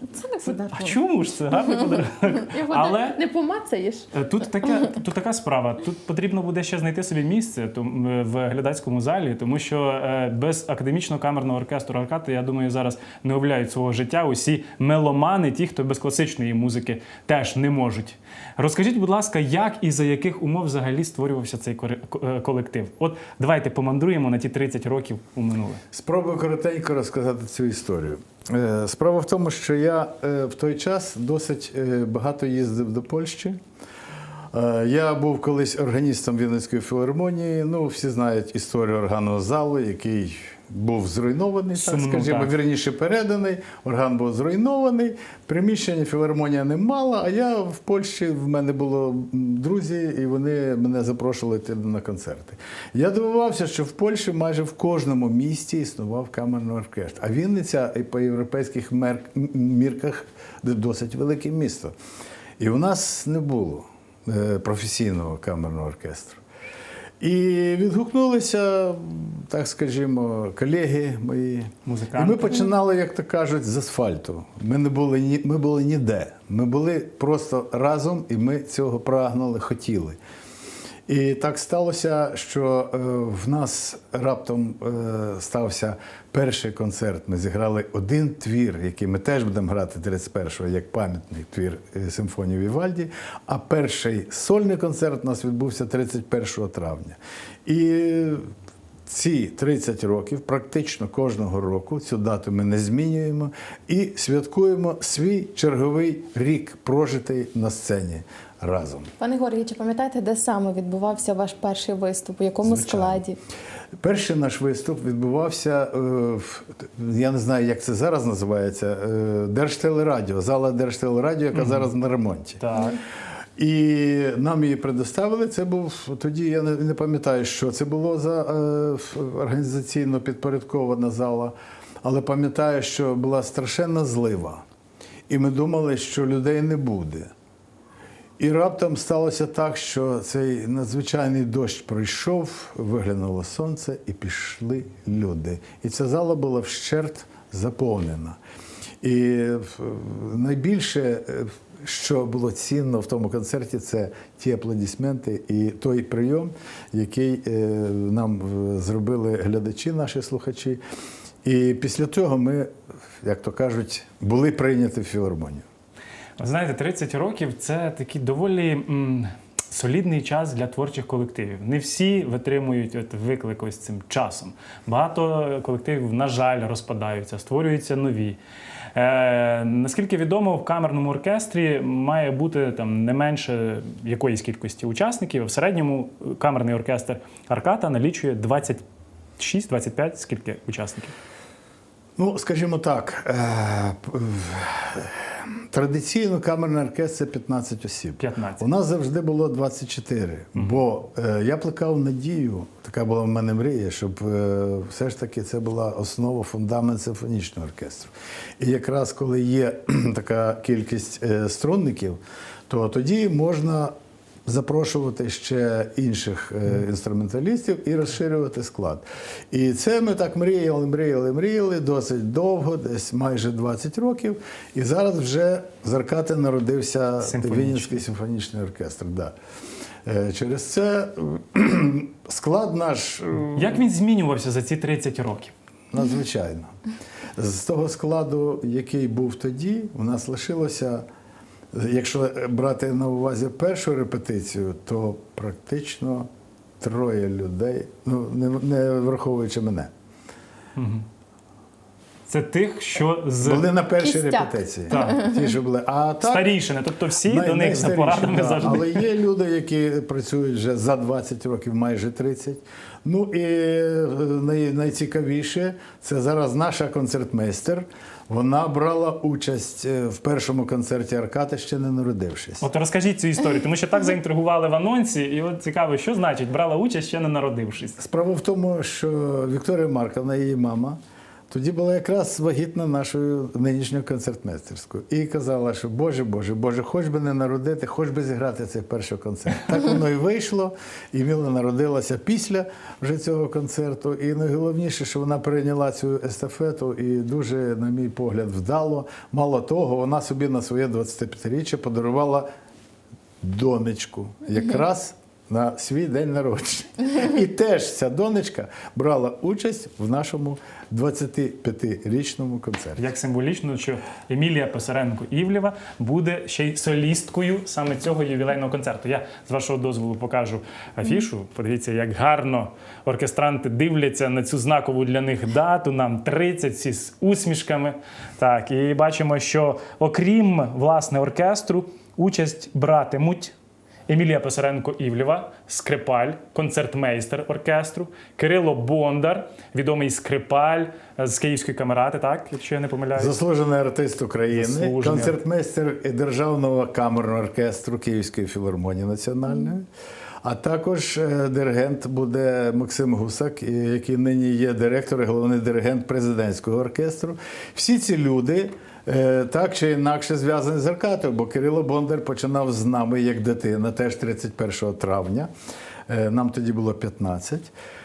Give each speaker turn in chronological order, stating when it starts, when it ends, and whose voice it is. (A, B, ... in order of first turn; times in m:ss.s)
0:00.1-0:01.0 A
0:00.4-0:03.2 B
0:01.5-0:04.1 A
0:04.1-0:25.8 B
0:25.9-0:33.6 C
0:34.5-1:01.9 C
0:41.7-0:42.5 B
1:02.6-1:06.4 C
1:07.2-1:20.2 C
1:11.8-1:12.7 B
1:21.1-1:38.4 C
1:39.1-1:49.1 C
1:49.2-1:53.4 A
1:52.6-1:53.2 C
1:54.0-2:02.6 C
2:01.5-2:01.9 B
2:02.6-2:03.0 B
2:03.6-2:14.6 C
2:15.3-2:17.3 C
2:18.4-2:28.4 C
2:29.0-2:40.8 C
2:41.4-2:42.7 C
2:43.2-2:45.6 C
2:46.4-2:58.4 B
2:58.9-3:08.8 B
3:09.4-3:11.1 B
3:12.2-3:33.9 C
3:18.2-3:18.6 B
3:34.4-3:49.3 C
3:47.2-3:48.0 B
3:50.0-3:53.8 C
3:53.5-3:55.5 B
3:55.9-3:56.7 C
3:57.4-4:01.0 C
4:01.7-4:06.3 C
4:06.8-4:09.9 C
4:10.8-4:11.0 B
4:12.3-4:13.7 B
4:13.4-4:16.5 C
4:14.0-4:15.5 A
4:14.9-4:15.2 B
4:16.2-4:19.0 B
4:17.2-4:32.6 C
4:32.6-4:38.0 B
4:38.0-4:41.0 C
4:41.5-5:02.4 C
5:03.4-5:13.0 C
5:13.0-5:33.5 B
5:34.1-5:43.4 B
5:43.1-5:49.8 C
5:44.5-5:45.4 B
5:50.4-6:05.5 C
6:06.1-6:07.7 C